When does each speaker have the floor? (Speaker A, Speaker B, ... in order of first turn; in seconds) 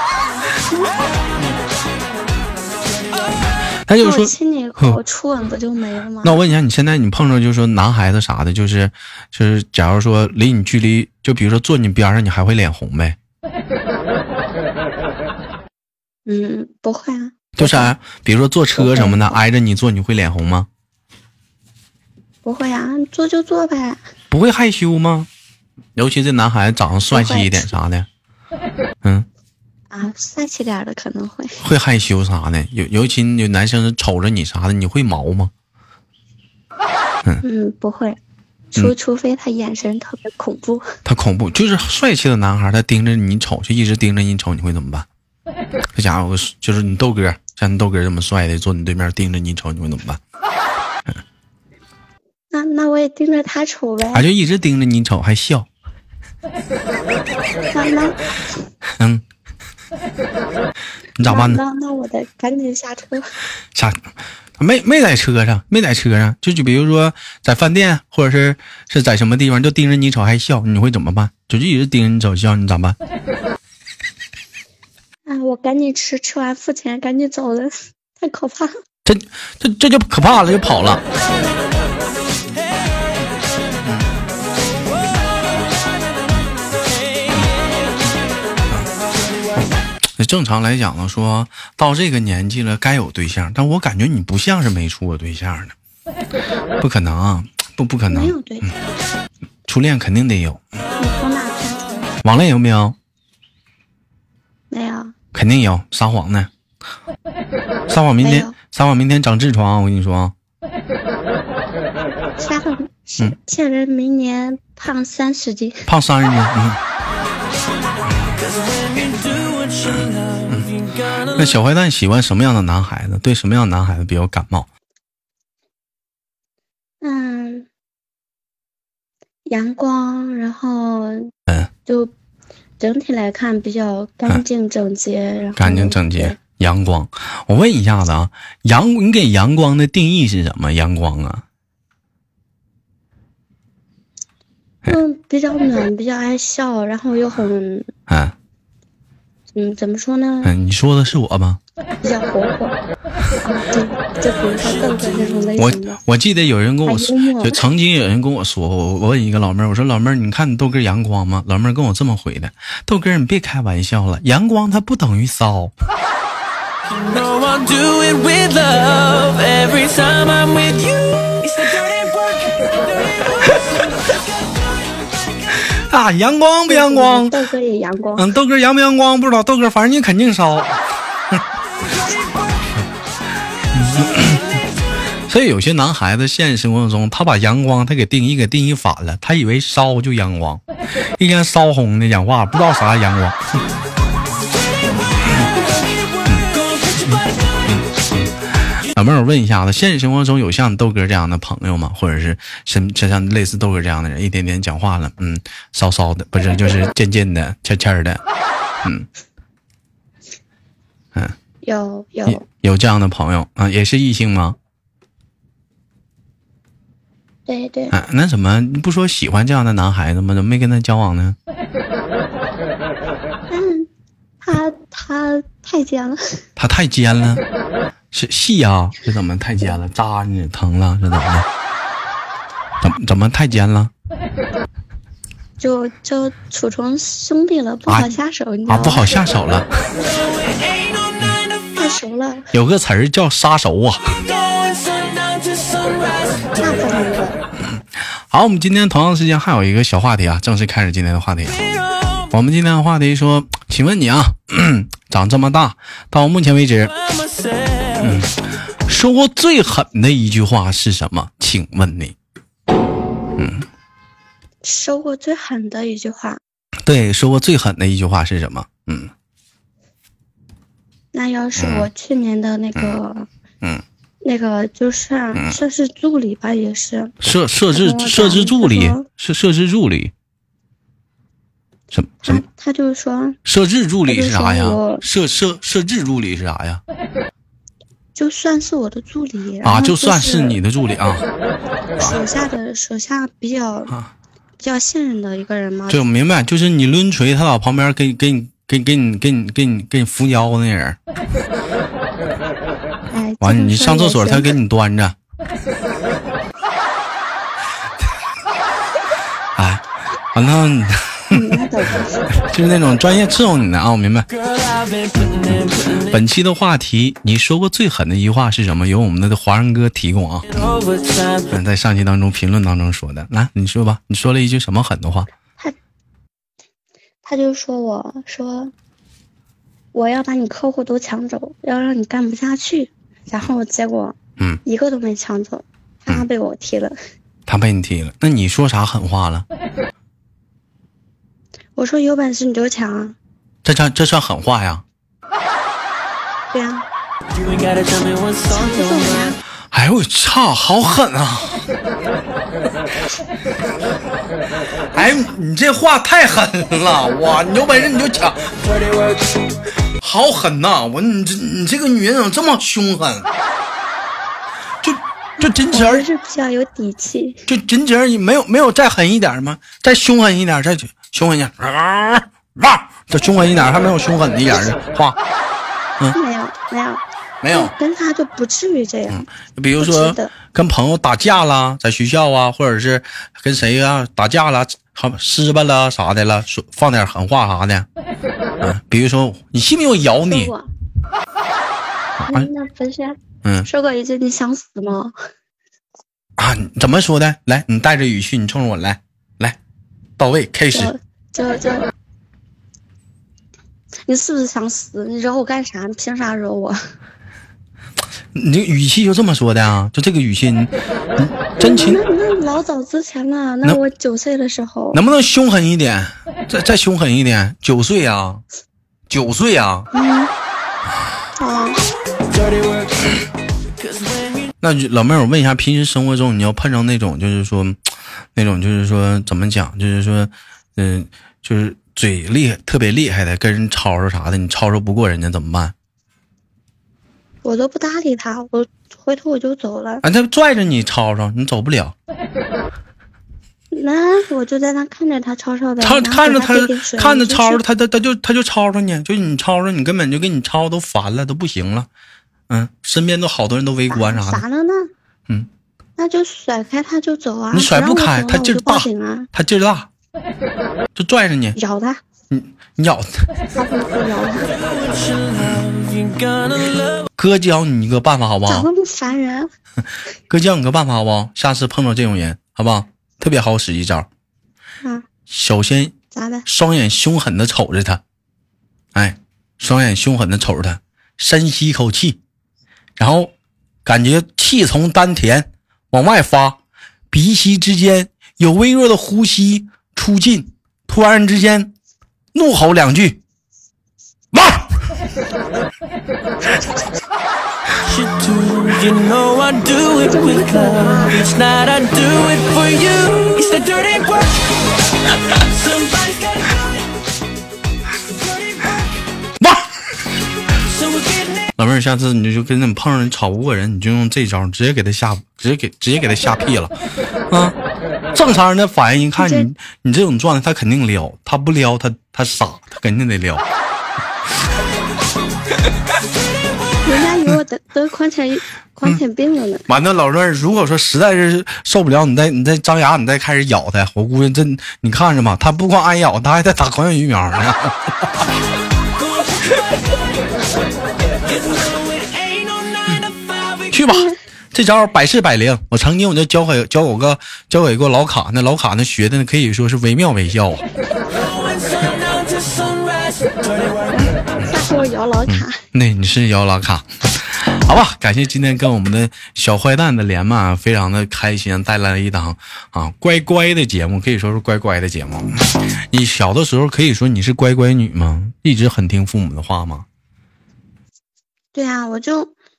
Speaker A: 3.9-5.0, 6.2-13.2, 17.6-20.7, 24.3-25.3, 25.9-28.1, 31.6-35.5, 41.0-45.1, 45.9-50.2, 54.1-55.7, 61.2-61.6, 63.7-64.0, 64.6-73.0, 79.0-81.0, 90.2-95.7, 96.8-98.7, 99.7-100.6, 102.2-103.0, 105.3-106.5, 107.9-110.3, 115.9-116.8, 121.3-124.7, 135.6-141.4, 148.1-148.3, 150.4-151.6, 155.6-165.7, 175.6-177.3, 178.2-181.4, 183.7-184.6, 185.3-190.6, 191.2-193.6, 196.2-196.5, 197.0-208.2, 208.8-209.1, 212.3-214.6, 217.9-221.4, 226.6-227.4, 228.1-231.5, 232.8-233.9, 237.9-238.1, 238.7-239.7, 242.5-244.3, 247.7-251.6, 252.3-256.9, 258.0-262.1, 263.4-263.7, 266.8-269.1, 271.6-271.9, 277.2-280.1, 281.9-282.4, 283.4-286.8, 289.6-291.3, 295.9-301.0, 303.4-305.1, 309.5-311.6, 312.3-314.3, 315.2-320.6, 321.5-325.3, 337.5-339.4, 343.6-344.8, 349.7-351.6, 354.9-358.6, 360.0-363.3, 364.8-366.1, 367.5-375.2, 377.4-377.7, 379.1-387.9, 388.6-390.5, 392.2-392.5, 396.4-399.6, 400.2-400.9, 408.3-412.0, 414.9-418.4, 419.1-419.9, 424.6-435.7, 440.0-441.9, 445.8-451.9, 452.5-454.4, 457.5-459.9, 460.9-461.6, 462.3-463.3, 465.4-465.6, 467.1-468.7, 470.3-474.1, 475.3-478.0, 478.9-482.2, 483.0-483.3, 483.8-486.6, 487.1-491.7, 492.3-493.2, 494.3-494.7, 509.4-509.7, 511.6-516.8, 517.3-517.5, 518.1-523.4, 529.7-538.2, 543.7-550.6, 555.3-569.9
Speaker B: 4.0-6.4, 16.2-17.9, 18.8-19.4, 22.4-24.0, 27.1-27.7, 29.9-31.6, 37.4-38.2, 38.7-40.9, 52.5-54.2, 57.7-58.2, 61.2-63.3, 75.2-78.7, 98.1-98.7, 101.0-102.1, 104.7-105.1, 108.2-108.5, 112.4-115.9, 127.0-127.7, 129.4-131.3, 131.8-132.1, 132.8-136.4, 144.8-147.9, 149.5-150.5, 152.0-152.8, 153.4-156.0, 156.8-157.6, 176.7-178.3, 211.6-212.4, 217.5-217.9, 223.5-223.9, 224.4-226.2, 235.6-239.2, 241.8-242.5, 246.6-247.4, 264.6-266.4, 271.1-273.3, 274.2-277.1, 277.7-279.1, 282.2-283.4, 284.1-285.0, 288.1-290.6, 292.0-294.0, 294.6-296.1, 303.1-304.6, 311.3-312.3, 327.2-328.7, 329.9-336.9, 341.8-343.1, 346.5-346.8, 348.5-349.4, 365.4-367.4, 376.1-379.3, 379.8-380.3, 390.3-390.7, 392.3-395.1, 400.7-401.9, 404.1-406.8, 411.6-415.0, 419.9-420.3, 421.4-421.8, 437.4-440.0, 443.7-447.6, 453.9-454.9, 456.0-459.3, 461.6-462.0, 463.5-464.5, 468.5-469.5, 476.1-476.4, 500.0-501.2, 519.2-519.5, 526.8-529.6, 553.9-555.6, 571.5-572.3
Speaker C: 118.3-121.4, 154.9-155.3, 166.9-174.3, 196.5-197.3, 240.2-241.4, 244.3-246.4, 256.9-258.1, 314.4-316.1, 320.5-321.5, 347.3-349.2, 423.8-424.5, 464.6-467.1, 497.8-504.5, 505.3-506.6, 510.6-511.5, 541.5-543.7, 551.2-553.3